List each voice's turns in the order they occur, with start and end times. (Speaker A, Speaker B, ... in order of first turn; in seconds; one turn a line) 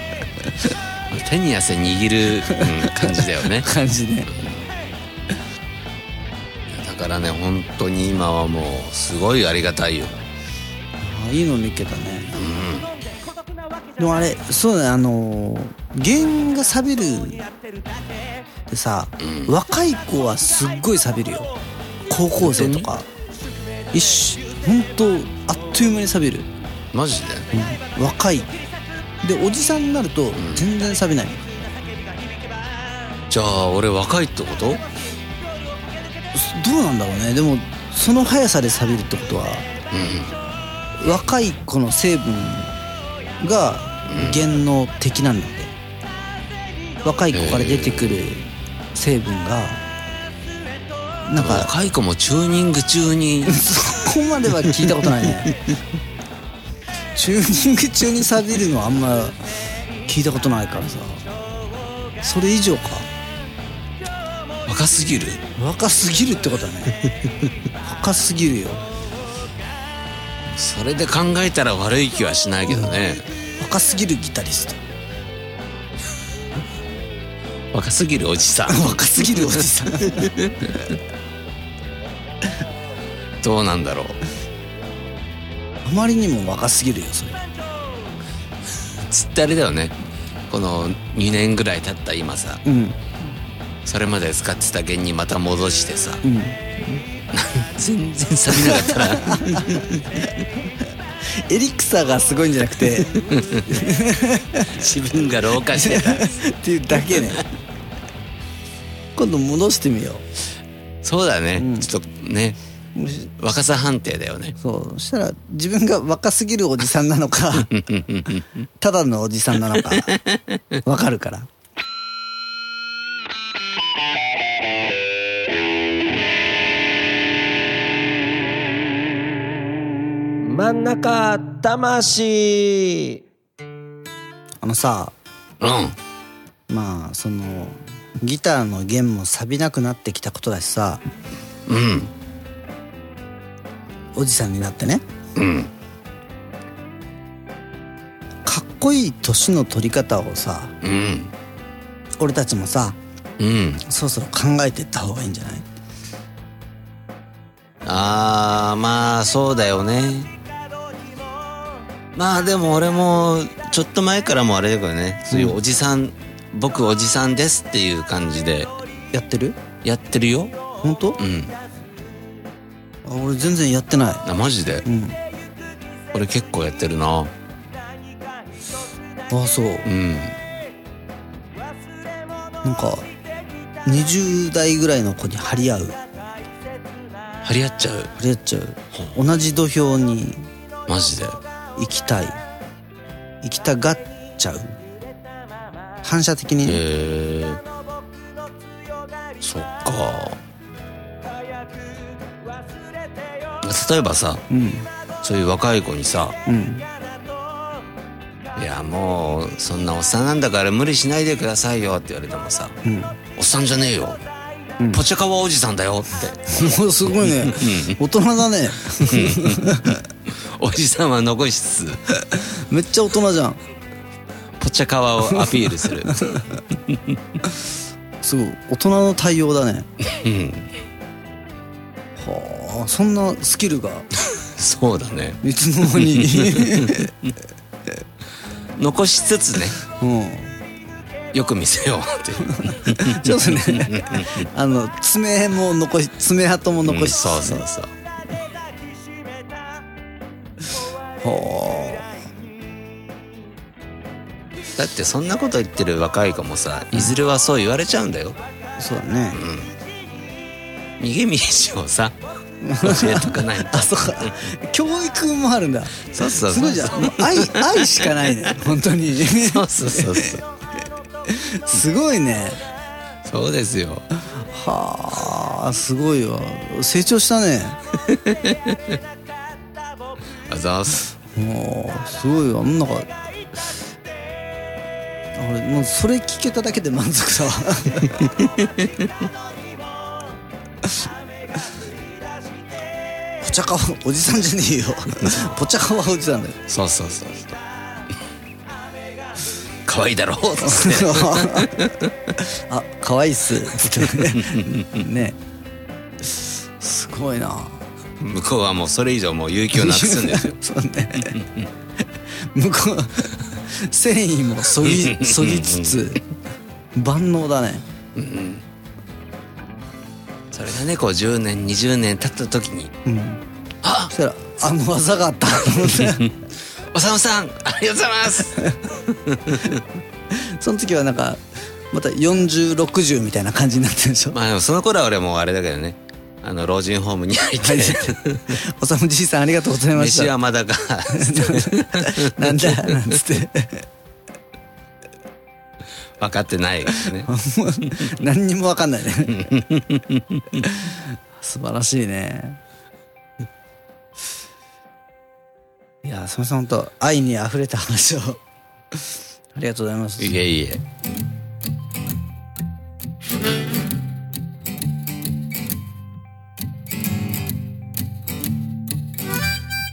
Speaker A: 1.1-3.7
Speaker B: 2.5-4.3
Speaker A: 6.7-10.2
Speaker B: 11.0-12.4
Speaker A: 12.3-12.9
Speaker B: 14.0-17.5
Speaker B: 18.7-21.5
Speaker A: 19.2-19.5
Speaker B: 22.1-23.1
Speaker A: 22.4-22.9
Speaker B: 23.9-26.5
Speaker A: 26.9-27.5
Speaker B: 27.5-28.5
Speaker B: 29.2-31.4
Speaker A: 30.4-30.6
Speaker A: 33.3-34.8
Speaker B: 36.3-39.7
Speaker A: 39.9-40.3
Speaker B: 41.0-42.7
Speaker B: 43.4-45.7
Speaker A: 44.1-44.4
Speaker B: 47.0-49.8
Speaker A: 47.3-48.2
Speaker B: 51.2-51.7
Speaker A: 51.4-53.7
Speaker B: 53.5-55.5
Speaker A: 54.8-55.2
Speaker B: 57.1-59.4
Speaker B: 60.0-61.2
Speaker B: 62.2-63.1
Speaker A: 64.7-65.4
Speaker B: 65.5-67.0
Speaker B: 67.8-68.8
Speaker A: 70.5-73.2
Speaker B: 73.6-74.8
Speaker A: 77.7-80.9
Speaker B: 78.7-80.3
Speaker A: 83.4-84.2
Speaker B: 85.8-87.4
Speaker A: 89.0-89.9
Speaker A: 90.5-92.6
Speaker B: 92.6-93.0
Speaker A: 93.8-96.2
Speaker B: 96.2-97.0
Speaker A: 97.3-100.2
Speaker B: 98.5-100.2
Speaker B: 101.3-104.9
Speaker A: 103.3-103.7
Speaker A: 104.7-106.3
Speaker B: 105.7-107.4
Speaker A: 107.0-107.4
Speaker B: 109.2-110.2
Speaker A: 111.0-112.6
Speaker B: 111.6-111.9
Speaker B: 112.9-113.3
Speaker A: 113.4-114.5
Speaker B: 114.6-117.7
Speaker A: 117.7-118.5
Speaker B: 118.8-120.1
Speaker A: 120.0-120.6
Speaker B: 120.8-121.5
Speaker C: 130.4-133.2
Speaker B: 134.6-135.1
Speaker A: 135.6-135.9
Speaker B: 136.7-141.0
Speaker A: 141.7-142.1
Speaker B: 144.1-145.0
Speaker A: 145.3-145.7
Speaker B: 148.4-150.7
Speaker A: 150.8-151.3
Speaker B: 152.2-153.0
Speaker A: 153.4-153.8
Speaker B: 153.8-155.7
Speaker A: 157.8-160.3
Speaker A: 162.1-168.7
Speaker B: 165.3-165.6
Speaker B: 169.1-169.6
Speaker A: 169.8-170.5
Speaker B: 170.8-171.2
Speaker A: 171.2-171.6
Speaker B: 173.0-174.2
Speaker A: 174.2-174.8
Speaker B: 174.8-175.2
Speaker A: 176.1-177.3
Speaker B: 179.3-179.9
Speaker A: 179.8-180.3
Speaker B: 182.6-183.1
Speaker B: 183.8-186.0
Speaker A: 187.4-188.1
Speaker B: 188.2-190.5
Speaker A: 190.9-191.4
Speaker B: 191.8-192.4
Speaker B: 193.4-194.7
Speaker B: 196.0-196.8
Speaker A: 196.6-197.6
Speaker A: 199.4-200.4
Speaker A: 203.6-204.4
Speaker B: 204.5-204.9
Speaker A: 205.2-206.3
Speaker B: 206.4-206.9
Speaker A: 208.6-212.8
Speaker B: 212.8-213.2
Speaker A: 213.3-214.2
Speaker A: 214.9-217.9
Speaker B: 216.5-220.0
Speaker A: 219.0-222.2
Speaker B: 222.3-223.6
Speaker A: 224.6-226.4
Speaker B: 225.2-226.6
Speaker B: 228.2-229.9
Speaker A: 230.0-230.7
Speaker B: 232.2-234.1
Speaker A: 234.4-235.4
Speaker B: 235.4-237.1
Speaker A: 235.9-237.1
Speaker A: 238.8-239.8
Speaker B: 239.9-240.6
Speaker A: 241.3-244.4
Speaker B: 242.5-247.6
Speaker A: 246.8-247.9
Speaker B: 251.2-252.1
Speaker A: 254.7-258.4
Speaker B: 258.8-259.4
Speaker A: 259.3-259.7
Speaker A: 261.0-262.1
Speaker B: 262.6-270.4
Speaker A: 262.8-264.4
Speaker A: 266.1-268.1
Speaker A: 269.3-270.4
Speaker B: 271.2-272.6
Speaker A: 273.2-274.1
Speaker B: 274.4-277.8
Speaker A: 278.1-278.8
Speaker A: 280.5-281.1
Speaker B: 281.3-283.1
Speaker B: 285.3-288.3
Speaker A: 288.2-288.9
Speaker B: 293.4-296.6
Speaker A: 295.2-295.6
Speaker A: 296.7-297.6
Speaker A: 299.9-302.1
Speaker B: 300.6-301.8
Speaker B: 302.4-305.4
Speaker A: 304.1-305.0
Speaker B: 306.2-307.8
Speaker A: 308.2-310.5
Speaker B: 309.7-311.4
Speaker A: 311.2-311.7
Speaker B: 312.4-316.2
Speaker A: 314.8-316.2
Speaker B: 316.9-317.8
Speaker A: 318.1-318.6
Speaker A: 320.5-322.9
Speaker B: 323.0-323.4
Speaker A: 323.8-324.1
Speaker B: 324.1-326.3
Speaker A: 325.7-326.3
Speaker A: 326.9-329.8
Speaker B: 330.3-334.4
Speaker A: 334.3-338.6
Speaker B: 337.6-340.3
Speaker A: 339.9-342.9
Speaker B: 341.1-343.9
Speaker A: 346.2-347.3
Speaker B: 347.2-349.5
Speaker A: 349.3-350.6
Speaker B: 350.6-352.6
Speaker B: 356.0-358.4
Speaker B: 359.5-360.4
Speaker A: 360.2-360.8